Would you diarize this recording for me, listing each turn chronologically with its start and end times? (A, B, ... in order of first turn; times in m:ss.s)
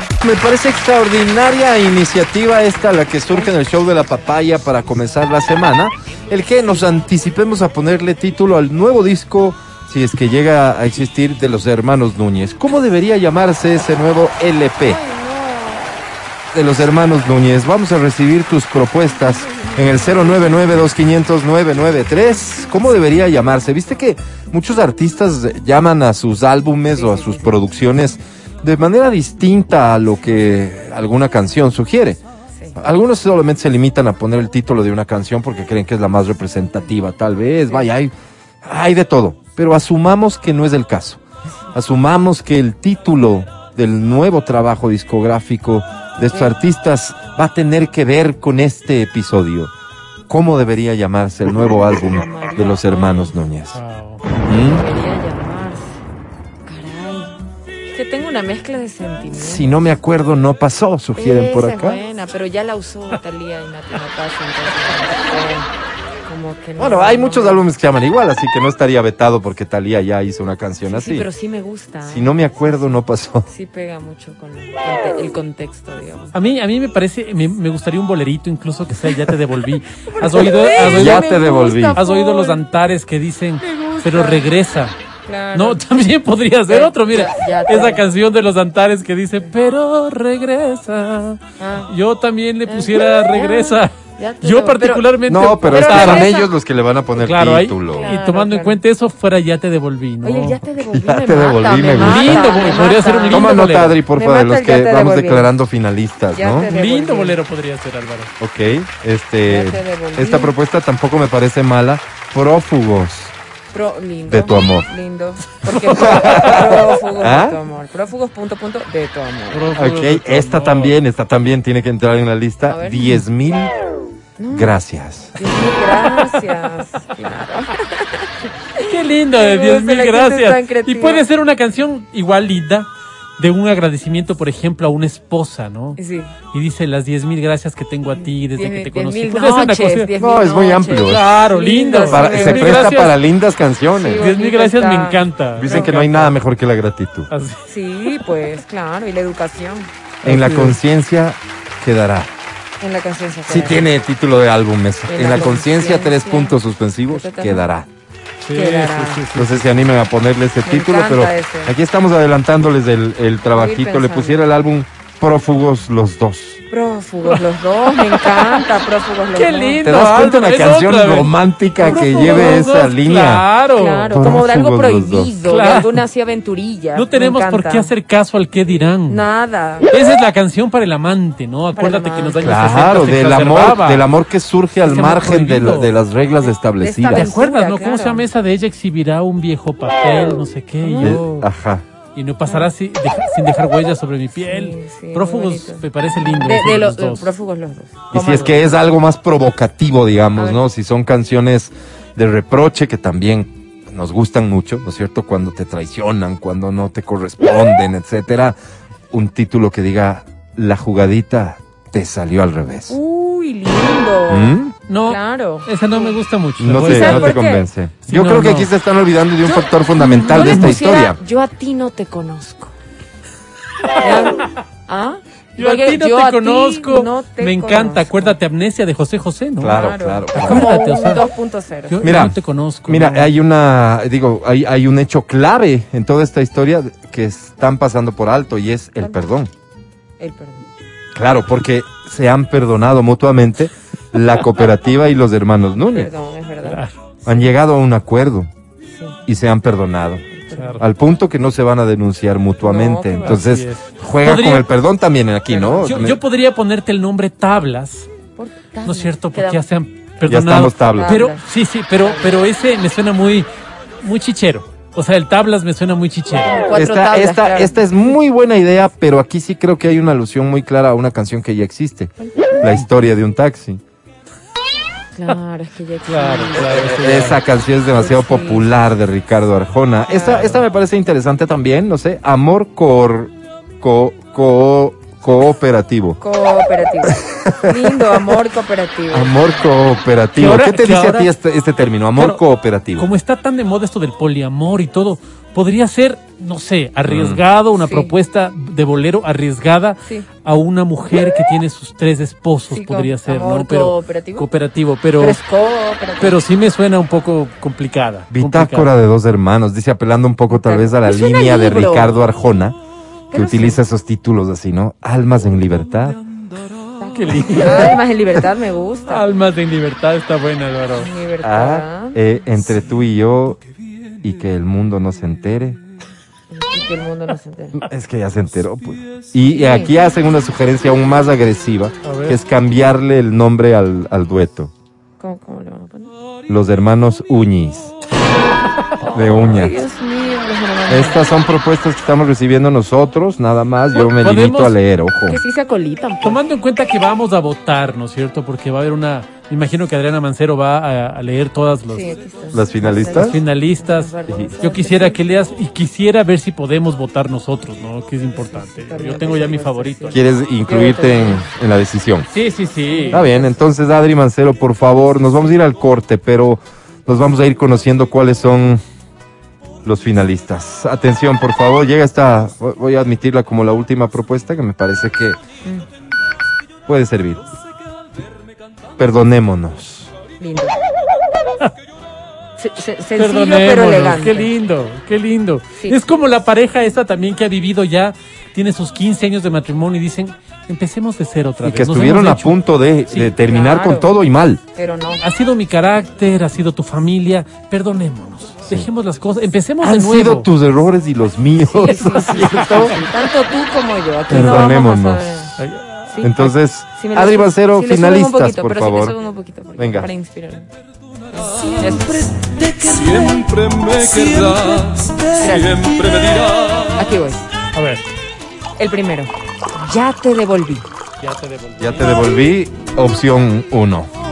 0:00.2-0:15.0 A
0:14.8-0:16.1 B
0:16.5-0:32.2 A
0:27.0-0:27.6 B
0:32.5-0:32.8 B
0:32.8-0:38.1 A
0:38.6-0:41.2 A
0:41.7-0:49.7 A
0:46.3-0:46.5 B
0:50.3-0:53.8 A
0:52.0-0:53.4 B
0:53.7-0:54.2 C
0:54.4-0:54.9 A
0:54.6-0:56.0 B
0:56.7-0:57.4 B
0:57.9-0:59.7 B
0:59.3-1:02.0 A
1:01.2-1:05.7 B
1:06.2-1:07.6 B
1:06.8-1:11.3 A
1:10.9-1:16.4 B
1:12.0-1:13.5 A
1:16.3-1:21.4 C
1:20.2-1:22.6 B
1:20.8-1:22.0 A
1:21.9-1:25.0 C
1:23.6-1:24.5 B
1:25.2-1:25.8 B
1:25.5-1:36.3 C
1:26.7-1:28.0 B
1:31.6-1:31.9 B
1:32.7-1:36.5 B
1:35.3-1:38.1 A
1:37.2-1:40.6 C
1:38.0-1:38.8 B
1:40.2-1:43.6 B
1:40.8-1:42.6 A
1:41.9-1:44.0 C
1:43.3-1:46.7 A
1:44.2-1:45.5 B
1:46.3-1:47.4 B
1:46.7-1:48.3 C
1:48.4-1:53.4 A
1:49.5-1:50.6 B
1:53.7-1:59.7 B
1:54.3-1:54.9 A
1:55.7-1:56.2 C
1:55.8-1:57.6 A
1:59.5-2:01.0 C
1:59.8-2:03.7 A
2:02.7-2:03.1 B
2:04.4-2:04.8 B
2:04.5-2:05.4 A
2:05.4-2:11.3 B
2:08.8-2:16.0 C
2:16.0-2:16.3 B
2:16.5-2:20.1 C
2:18.1-2:23.1 B
2:20.2-2:21.3 A
2:20.9-2:23.2 C
2:22.0-2:24.2 A
2:23.9-2:26.0 B
2:24.2-2:26.4 C
2:25.6-2:27.3 A
2:27.3-2:27.6 C
2:27.7-2:29.9 B
2:30.2-2:32.3 A
2:30.2-2:30.8 C
2:32.8-2:33.9 B
2:33.5-2:37.9 A
2:35.1-2:37.7 B
2:38.5-2:39.9 C
2:38.5-2:39.2 B
2:39.4-2:46.6 A
2:40.6-2:41.8 B
2:43.5-2:44.4 B
2:46.7-2:49.9 B
2:48.0-2:48.6 C
2:49.3-2:54.2 C
2:49.8-2:53.5 A
2:51.8-2:52.6 B
2:53.7-2:57.9 B
2:54.1-2:55.4 A
2:55.4-2:56.0 C
2:57.0-2:59.2 C
2:58.7-2:59.9 B
2:59.9-3:04.1 C
3:01.7-3:02.6 B
3:02.4-3:07.3 A
3:04.8-3:06.0 C
3:06.8-3:08.3 B
3:07.1-3:11.5 C
3:10.8-3:11.2 B
3:11.0-3:11.8 A
3:12.1-3:17.3 C
3:12.5-3:12.7 B
3:14.4-3:18.8 B
3:18.1-3:28.6 A
3:18.1-3:18.6 C
3:20.4-3:20.6 B
3:29.1-3:33.0 A
3:32.9-3:36.1 B
3:34.3-3:34.8 A
3:34.9-3:37.4 C
3:36.6-3:41.2 A
3:36.8-3:37.7 B
3:38.1-3:38.7 C
3:39.4-3:42.8 B
3:40.0-3:40.8 C
3:44.0-3:48.4 B
3:44.0-3:44.4 C
3:45.6-3:51.2 C
3:49.6-3:50.7 A
3:49.6-3:52.2 B
3:51.9-3:53.3 C
3:52.0-3:59.5 A
3:59.0-3:59.3 B
4:00.2-4:00.7 B
4:01.2-4:06.1 A
4:05.9-4:06.8 B
4:06.7-4:06.9 C
4:07.2-4:08.5 A
4:08.9-4:09.2 B
4:09.3-4:10.3 A
4:10.3-4:10.9 B
4:10.6-4:10.8 C
4:10.8-4:16.2 A
4:12.6-4:13.4 B
4:13.2-4:14.7 C
4:15.5-4:18.1 C
4:18.4-4:19.6 B
4:18.8-4:23.5 C
4:20.3-4:21.2 A
4:20.8-4:21.4 B
4:22.0-4:22.4 B
4:24.0-4:26.6 C
4:26.4-4:27.9 B
4:26.7-4:33.8 A
4:35.2-4:37.0 B
4:36.1-4:37.4 C
4:36.6-4:46.2 A
4:38.0-4:38.7 B
4:40.1-4:40.5 B
4:46.2-4:49.4 B
4:47.1-4:48.3 A
4:49.1-4:53.1 A
4:50.4-4:51.3 C
4:52.2-4:52.4 C
4:53.0-5:05.4 C
4:57.0-4:57.4 A
4:57.8-4:58.1 B
5:00.0-5:00.3 B
5:02.7-5:04.5 B
5:05.2-5:06.4 B
5:06.2-5:08.9 C
5:08.3-5:12.8 A
5:10.5-5:12.1 B
5:13.3-5:13.8 B
5:13.3-5:16.2 A
5:17.0-5:18.0 C
5:17.4-5:19.3 B
5:19.1-5:21.1 C
5:20.9-5:22.2 B
5:21.4-5:23.6 A
5:24.2-5:25.8 A
5:26.5-5:27.9 B
5:27.8-5:34.7 A
5:29.5-5:29.9 B
5:32.0-5:32.4 C
5:35.2-5:36.1 B
5:36.5-5:38.0 A
5:39.0-5:41.3 B
5:39.1-5:39.8 A
5:40.9-5:45.4 A
5:43.9-5:44.8 C
5:45.3-5:46.4 B
5:46.2-5:52.1 C
5:51.9-5:55.3 B
5:52.5-5:53.4 A
5:53.0-6:00.2 C
5:54.3-5:54.5 A
5:58.4-6:01.5 B
6:00.1-6:02.3 A
6:02.3-6:03.3 C
6:02.8-6:03.6 B
6:03.1-6:08.8 A
6:09.8-6:15.4 A
6:16.9-6:17.4 A
6:19.0-6:20.1 A
6:20.4-6:20.8 B
6:22.6-6:24.5 B
6:23.2-6:33.3 C
6:25.8-6:26.0 B
6:31.6-6:34.6 A
6:33.4-6:34.1 B
6:34.7-6:35.2 B
6:35.2-6:40.5 C
6:38.6-6:38.9 A
6:39.8-6:43.0 A
6:41.7-6:45.5 B
6:44.3-6:45.6 A
6:45.6-6:46.0 C
6:46.1-6:50.7 B
6:46.2-6:49.2 A
6:49.8-6:50.1 A
6:51.5-6:53.2 B
6:51.6-6:51.9 C
6:52.7-6:56.9 D
6:54.3-6:56.1 B
6:56.9-6:57.4 B
6:57.7-6:58.0 C
6:58.8-7:00.9 B
7:01.2-7:02.1 C
7:01.8-7:04.1 A